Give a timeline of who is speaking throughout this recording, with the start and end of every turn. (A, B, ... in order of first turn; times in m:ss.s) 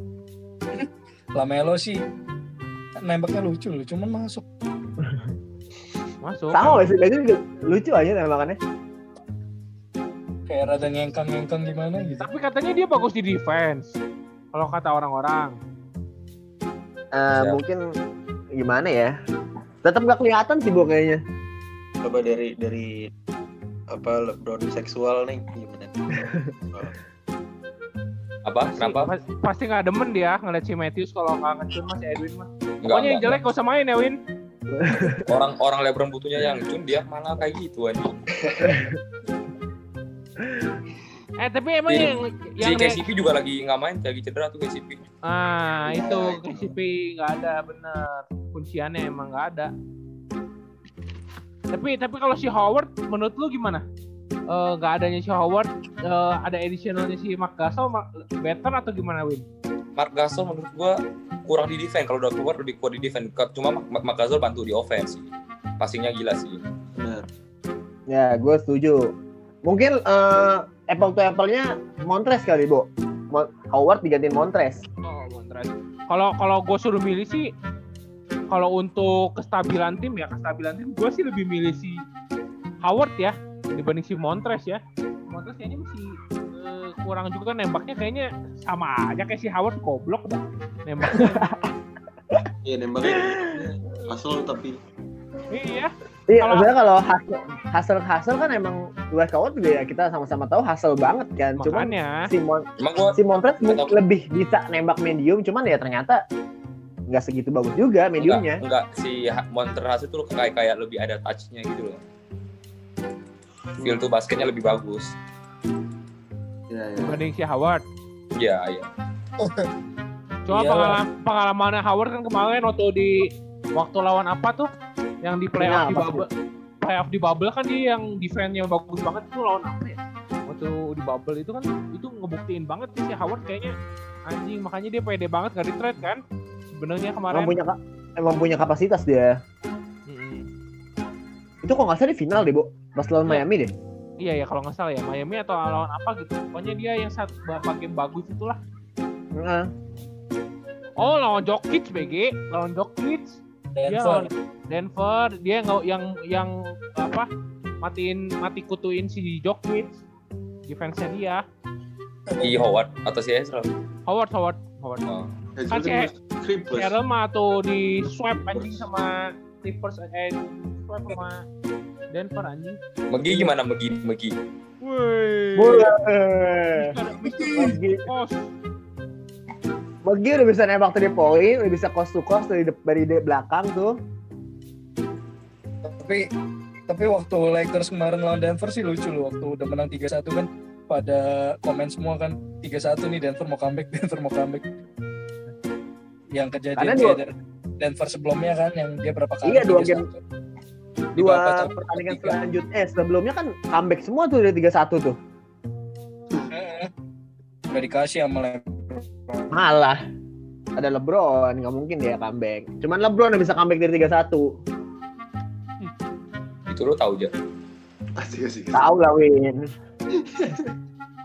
0:00.8-0:02.0 A
0:03.0-0:04.4 A
0:06.2-0:06.9 B
0:06.5-0:08.6 C
0:10.5-0:12.3 A
0:12.2-0:13.9 B
0:14.5-0:15.5 B
0:17.1-0:17.8 C
0:18.6-0:19.1 C
0:19.8-0:21.2 C
0:22.0-0:23.1 D
0:23.9-0:27.0 D
0:28.4-0:29.1 E
0:28.7-0:34.2 B
0:32.8-0:33.4 E
0:34.7-0:35.3 C
0:35.1-0:38.2 E
0:38.4-0:38.8 D
0:38.6-0:39.0 C
0:41.4-0:43.0 B
0:41.9-0:45.0 E
0:45.2-0:49.7 B
0:45.9-0:46.7 D
0:51.7-0:53.8 B
0:54.5-0:59.4 B
1:00.0-1:05.3 E
1:05.8-1:06.6 E
1:07.0-1:07.3 D
1:08.1-1:09.1 C
1:09.6-1:14.8 C
1:15.0-1:17.5 B
1:18.5-1:22.0 B
1:22.8-1:31.5 B
1:31.0-1:31.7 C
1:32.6-1:34.8 D
1:33.2-1:33.5 C
1:35.5-1:36.7 B
1:36.3-1:46.2 C
1:41.6-1:42.2 B
1:42.8-1:44.0 E
1:47.1-1:48.6 C
1:48.2-1:52.0 E
1:53.8-1:54.1 D
1:53.8-1:55.1 E
1:56.7-1:57.2 D
1:57.0-1:57.8 B
1:58.4-1:58.9 E
1:59.4-1:59.7 A
2:00.5-2:04.7 B
2:00.5-2:01.0 A
2:05.2-2:06.3 B
2:05.6-2:06.2 C
2:06.8-2:13.7 B
2:14.3-2:16.2 B
2:16.8-2:17.5 B
2:17.3-2:19.3 C
2:20.1-2:20.4 B
2:21.6-2:23.7 C
2:24.2-2:28.6 B
2:29.4-2:29.7 C
2:31.0-2:37.3 B
2:33.7-2:34.3 A
2:37.8-2:40.0 B
2:40.7-2:41.4 B
2:42.3-2:42.6 A
2:42.4-2:43.7 E
2:44.1-2:45.0 B
2:45.6-2:47.0 D
2:45.7-2:46.1 B
2:46.7-2:51.4 B
2:48.5-2:48.8 D
2:52.1-2:52.8 B
2:53.1-2:54.4 E
2:54.8-2:55.9 B
2:55.6-2:56.9 C
2:56.7-2:58.5 B
2:57.2-2:57.8 A
2:57.6-2:58.1 C
3:00.0-3:04.0 C
3:05.8-3:06.2 A
3:06.9-3:14.6 A
3:16.3-3:20.2 A
3:16.8-3:17.2 C
3:19.4-3:20.0 C
3:21.2-3:22.4 A
3:21.2-3:25.2 C
3:26.5-3:26.9 A
3:27.7-3:29.5 A
3:29.5-3:30.0 C
3:30.8-3:34.4 C
3:36.7-3:37.3 E
3:38.2-3:38.9 D
3:38.7-3:39.6 C
3:40.1-3:40.7 D